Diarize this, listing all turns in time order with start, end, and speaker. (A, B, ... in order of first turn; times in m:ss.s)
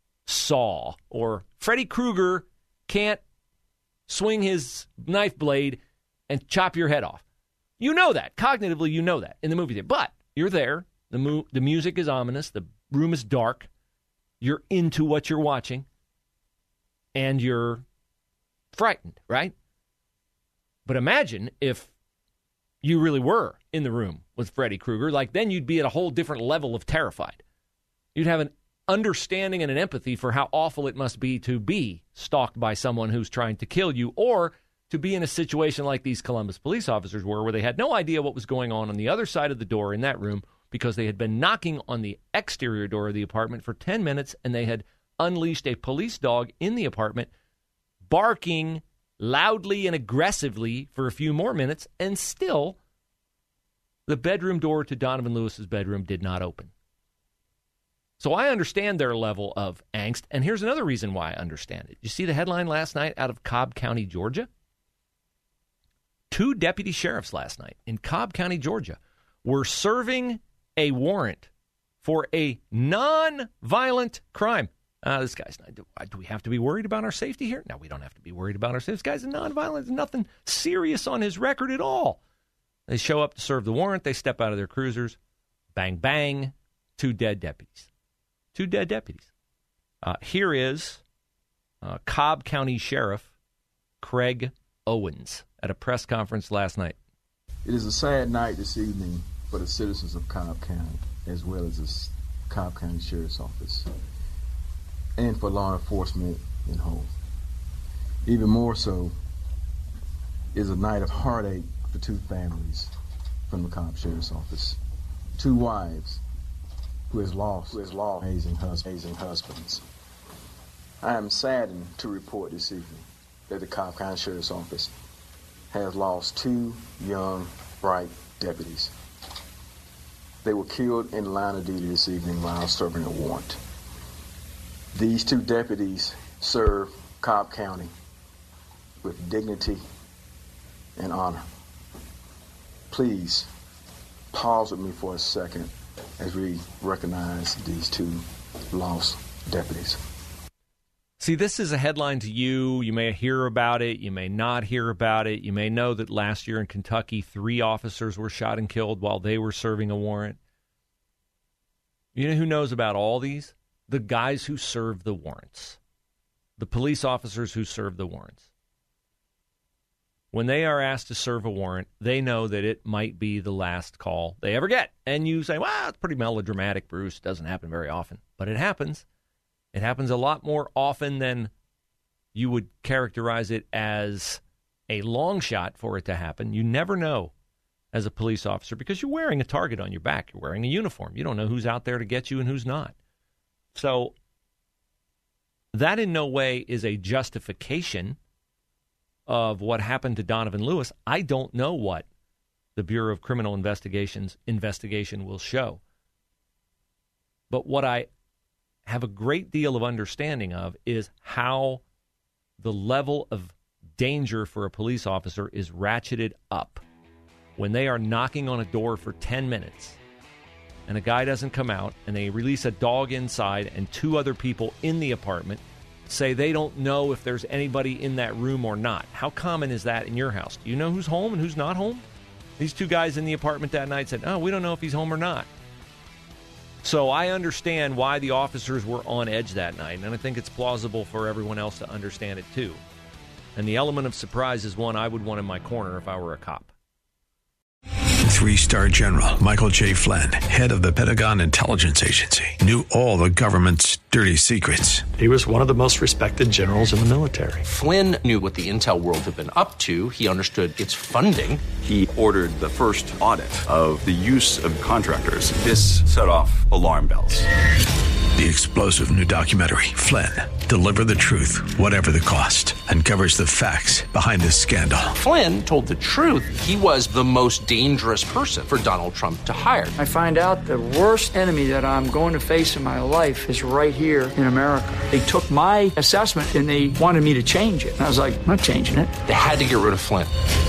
0:00.2-0:03.2 A
0:04.1-0:07.2 A
0:07.8-0:13.7 A
0:14.4-0:15.9 A
0:17.1-0:17.8 A
0:18.7-0:19.5 A
0:20.8-0:21.9 A
0:22.8-0:27.4 A
0:28.1-0:47.3 A
0:48.0-0:52.8 A
0:54.1-0:56.7 A
0:58.2-1:04.5 A
1:06.3-1:11.5 A
1:12.0-1:22.2 A
1:22.9-1:25.2 A
1:25.7-1:27.9 A
1:28.5-1:29.3 A
1:30.0-1:31.0 A
1:31.8-1:33.3 A
1:34.0-1:37.0 A
1:37.6-1:43.9 B
1:45.2-1:47.1 B
1:48.2-1:49.1 B
1:50.5-1:52.9 B
1:53.5-1:54.8 B
1:55.4-1:56.2 B
1:57.1-1:59.8 B
2:01.0-2:04.9 B
2:05.7-2:08.9 B
2:10.4-2:13.6 B
2:14.9-2:17.9 B
2:19.0-2:19.8 B
2:21.0-2:21.4 B
2:22.9-2:23.5 B
2:24.3-2:30.0 B
2:31.2-2:40.4 A
2:42.1-2:45.8 A
2:46.6-2:48.5 A
2:50.3-2:59.0 A
2:59.7-3:01.5 A
3:02.3-3:07.3 A
3:07.9-3:12.9 A
3:13.7-3:14.1 A
3:15.7-3:18.2 A
3:19.3-3:22.0 A
3:22.8-3:25.8 A
3:27.5-3:28.1 A
3:28.9-3:31.8 A
3:32.6-3:36.8 A
3:37.6-3:40.0 A
3:40.9-3:52.0 A
3:52.6-3:55.5 A
3:56.8-4:02.8 A
4:03.6-4:06.7 A
4:08.2-4:15.1 C
4:15.2-4:17.6 D
4:17.6-4:21.6 E
4:21.8-4:27.4 F
4:28.4-4:35.1 C
4:35.1-4:39.9 E
4:40.0-4:49.1 G
4:49.2-4:50.3 E